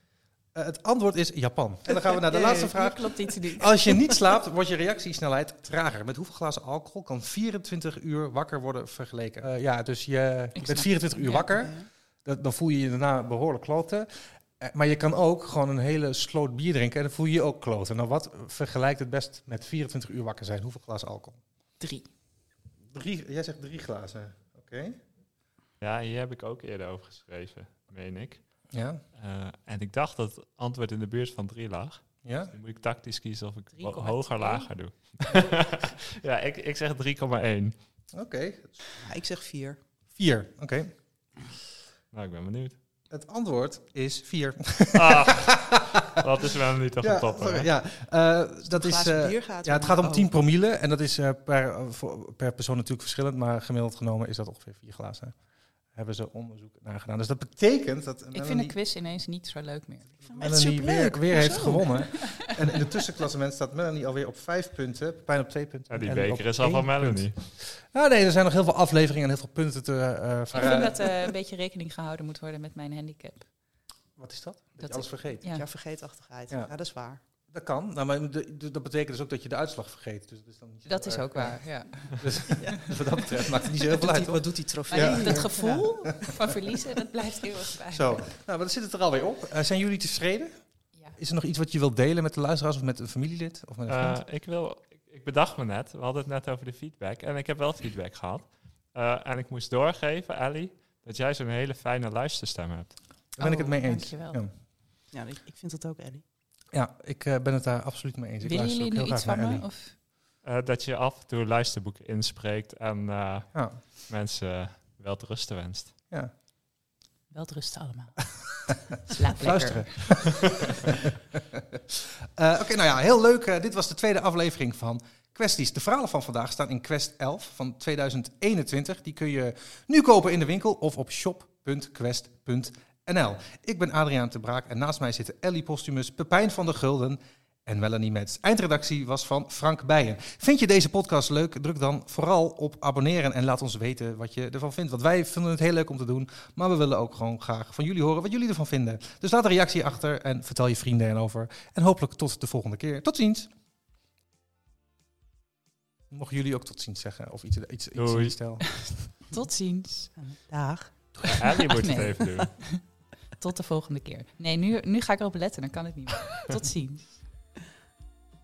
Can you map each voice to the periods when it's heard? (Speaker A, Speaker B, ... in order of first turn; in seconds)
Speaker A: 0.5-14.1, 14.6-21.4, 22.9-25.0, 28.7-29.0, 32.2-32.5, 38.1-38.8, 40.1-40.9, 43.1-46.2, 47.0-55.4, 55.9-58.7, 60.4-71.3, 74.2-75.4, 77.5-86.5, 87.9-90.5, 91.2-94.2, 103.4-104.5, 106.7-109.6, 113.5-113.8, 118.7-153.5, 156.1-158.7
Speaker B: 2.3-4.2, 10.6-11.8, 21.8-22.1, 33.8-34.7, 58.3-60.2, 61.3-62.8, 70.5-73.5, 74.8-75.6, 80.8-83.0, 84.9-88.2, 103.4-104.4, 108.4-109.9, 117.3-118.3, 119.0-120.9, 158.6-160.2, 161.6-162.8, 163.4-167.1
Speaker C: 25.8-28.5, 29.1-37.8, 42.1-42.8, 44.9-47.7, 65.9-67.4, 93.9-102.9, 110.4-115.9, 157.9-158.3, 161.2-162.5
Speaker D: 39.0-39.8, 48.6-50.3, 60.2-62.0, 75.4-77.2, 83.8-85.9, 105.1-106.2, 160.2-161.5